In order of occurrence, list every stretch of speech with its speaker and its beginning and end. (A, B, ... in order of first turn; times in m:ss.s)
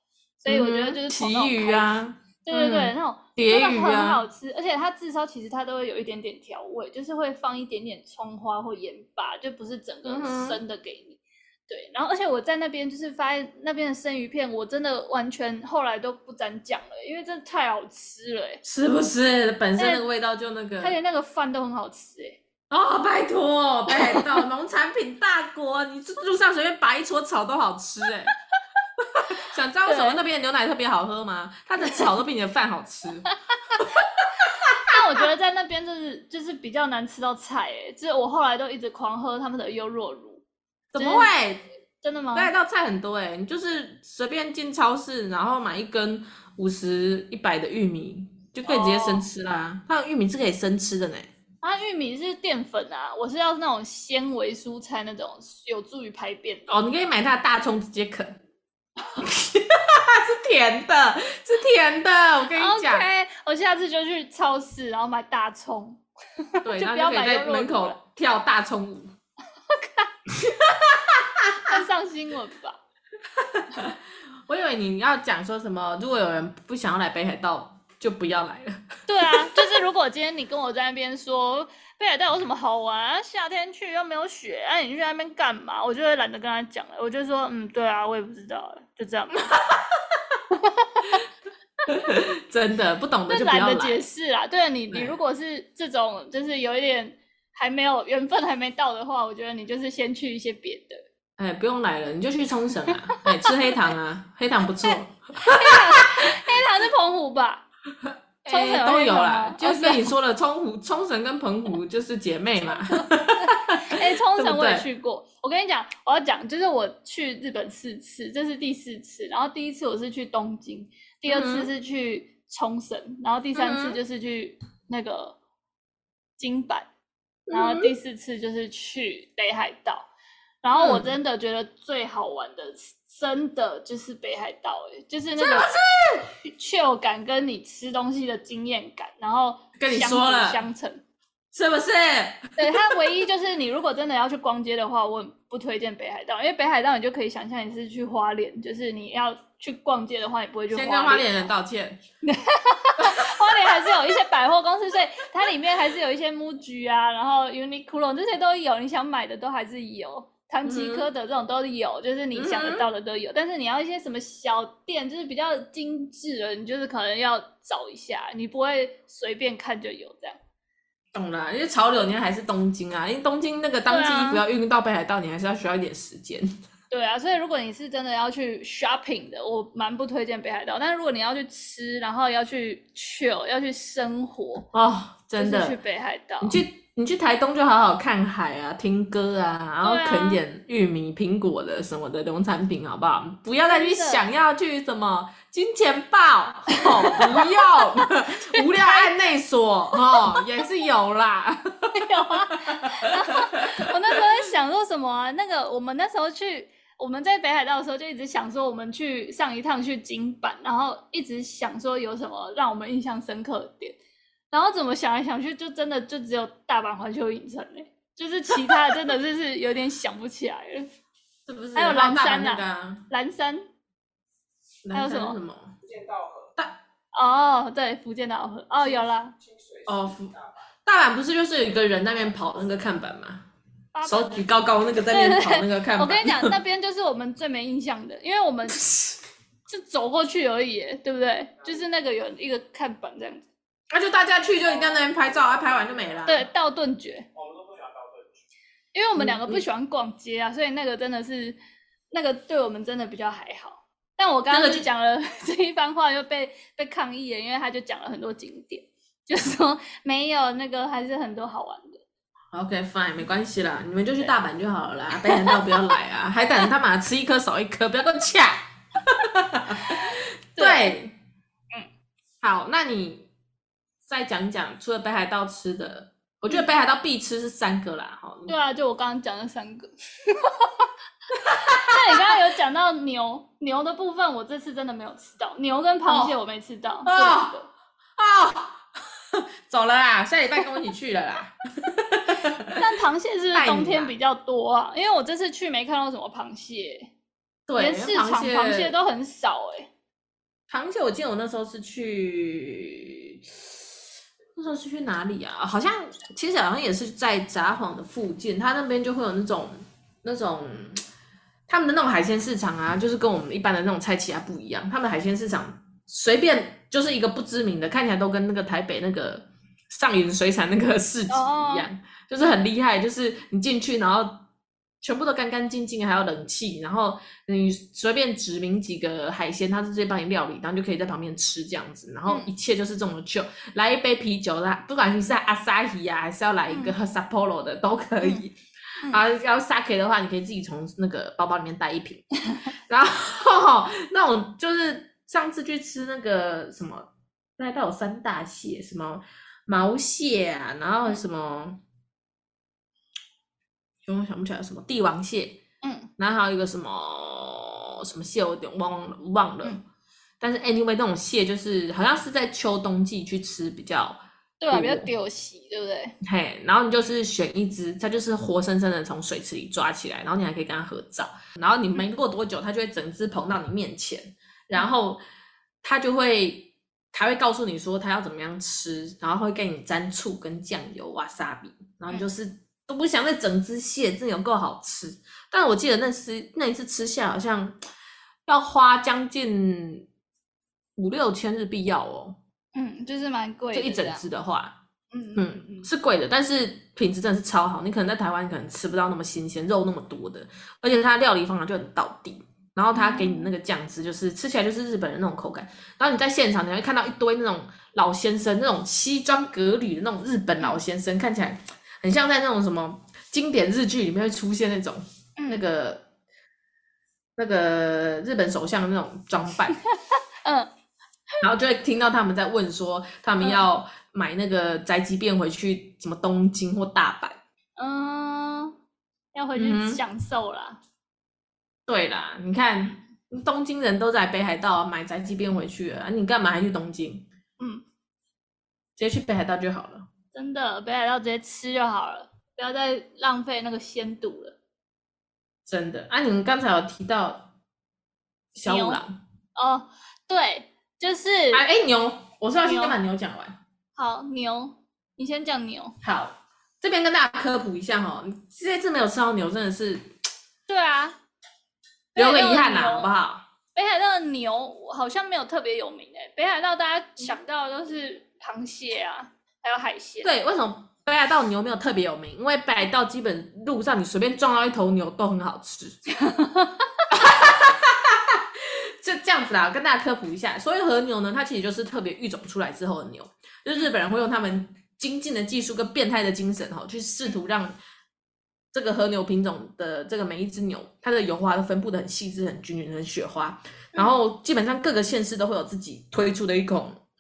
0:00.4-0:01.9 A
0:00.5-0:04.2 B
0:02.4-0:18.6 A
0:10.0-0:10.6 B
0:18.6-0:20.9 B
0:19.8-0:20.0 A
0:20.8-0:22.4 A
0:22.7-0:28.3 B
0:23.9-0:24.4 A
0:29.1-0:34.9 B
0:29.8-0:30.2 A
0:34.9-0:40.4 A
0:40.9-0:41.6 B
0:41.0-0:41.3 A
0:42.0-0:42.5 A
0:42.3-0:51.3 B
0:48.6-0:49.2 A
0:51.6-0:56.7 A
0:56.7-0:58.4 B
0:59.1-1:03.0 B
1:02.6-1:08.0 A
1:06.6-1:09.1 B
1:09.7-1:10.1 A
1:10.3-1:11.8 B
1:11.7-1:12.8 A
1:13.4-1:19.6 B
1:19.1-1:29.5 A
1:30.5-1:31.2 A
1:31.9-1:34.0 B
1:33.3-1:41.0 A
1:34.9-1:35.2 B
1:41.4-1:46.1 B
1:44.8-1:47.6 A
1:48.4-1:54.8 B
1:48.4-1:50.1 A
1:52.6-2:05.4 A
2:01.3-2:01.7 B
2:03.6-2:04.0 B
2:06.4-2:06.9 A
2:07.5-2:07.9 B
2:07.5-2:10.1 A
2:10.6-2:15.7 A
2:10.7-2:11.1 B
2:15.4-2:16.3 B
2:16.4-2:21.0 A
2:19.8-2:20.6 B
2:21.5-2:22.9 B
2:22.6-2:31.4 A
2:30.7-2:32.0 B
2:32.2-2:50.4 A
2:40.6-2:41.1 B
2:42.3-2:42.9 B
2:51.1-2:56.5 B
2:53.9-2:54.4 A
2:56.9-3:04.7 A
3:04.7-3:05.8 B
3:05.4-3:06.6 A
3:06.4-3:22.1 B
3:09.8-3:10.4 A
3:13.6-3:14.2 A
3:16.8-3:19.1 A
3:20.1-3:20.5 A
3:21.9-3:34.0 A
3:22.7-3:23.1 B
3:23.6-3:23.9 B
3:34.5-3:40.9 A
3:41.5-3:43.0 B
3:41.8-3:43.6 A
3:44.8-3:45.8 B
3:44.9-3:45.4 A
3:45.8-3:46.5 C
3:47.1-3:49.4 A
3:49.4-3:50.4 C
3:49.9-3:50.3 B
3:50.8-3:53.4 B
3:53.9-3:54.5 A
3:54.0-3:56.5 B
3:55.1-3:58.8 A
3:58.8-3:59.2 B
3:59.7-4:03.4 A
4:03.9-4:06.5 B
4:06.3-4:07.3 A
4:07.4-4:08.3 C
4:08.9-4:11.6 A
4:09.2-4:09.6 B
4:12.1-4:22.0 A
4:14.5-4:14.9 B
4:22.5-4:31.1 B
4:25.3-4:25.8 A
4:29.8-4:30.9 A
4:32.4-4:33.3 B
4:34.0-4:38.5 B
4:38.5-4:40.9 A
4:41.4-4:42.2 B
4:41.5-4:47.7 A
4:46.1-4:46.4 B
4:47.0-4:47.6 B
4:48.2-4:48.8 B
4:49.3-4:52.8 B
4:52.8-4:57.1 A
4:53.5-4:54.1 B
4:57.7-4:59.0 B
4:57.8-4:59.9 A
5:00.7-5:03.8 B
5:04.6-5:11.0 B
5:11.7-5:24.4 B
5:21.3-5:21.9 A
5:25.0-5:38.6 B
5:36.7-5:37.0 A
5:39.1-5:42.3 B
5:42.9-5:51.8 B
5:54.0-5:55.6 B
5:55.8-5:56.1 A
5:56.2-5:59.8 B
6:00.4-6:05.1 B
6:04.6-6:06.1 A
6:06.2-6:15.2 B
6:15.8-6:27.8 B
6:28.5-6:30.0 B
6:31.0-6:32.4 B
6:32.7-6:34.2 A
6:33.7-6:34.8 B
6:35.1-6:35.9 A
6:35.4-6:56.0 B
6:42.9-6:43.5 A
6:57.4-6:59.8 B
7:00.4-7:00.7 A
7:01.4-7:07.4 B
7:07.8-7:08.7 A
7:09.3-7:10.8 A
7:09.6-7:10.0 B
7:11.9-7:17.3 B
7:19.0-7:20.1 B
7:20.3-7:24.6 A
7:25.7-7:27.5 B
7:28.6-7:29.1 B
7:28.6-7:29.0 A
7:29.6-7:31.6 A
7:31.5-7:33.6 B
7:32.6-7:33.0 A
7:34.0-7:35.9 A
7:36.0-7:40.2 B
7:40.7-7:41.1 A
7:42.1-7:43.1 A
7:42.2-7:43.4 B
7:43.7-7:50.3 A
7:50.2-7:56.0 B
7:56.2-7:57.1 A
7:57.1-8:07.8 B
8:08.7-8:17.0 B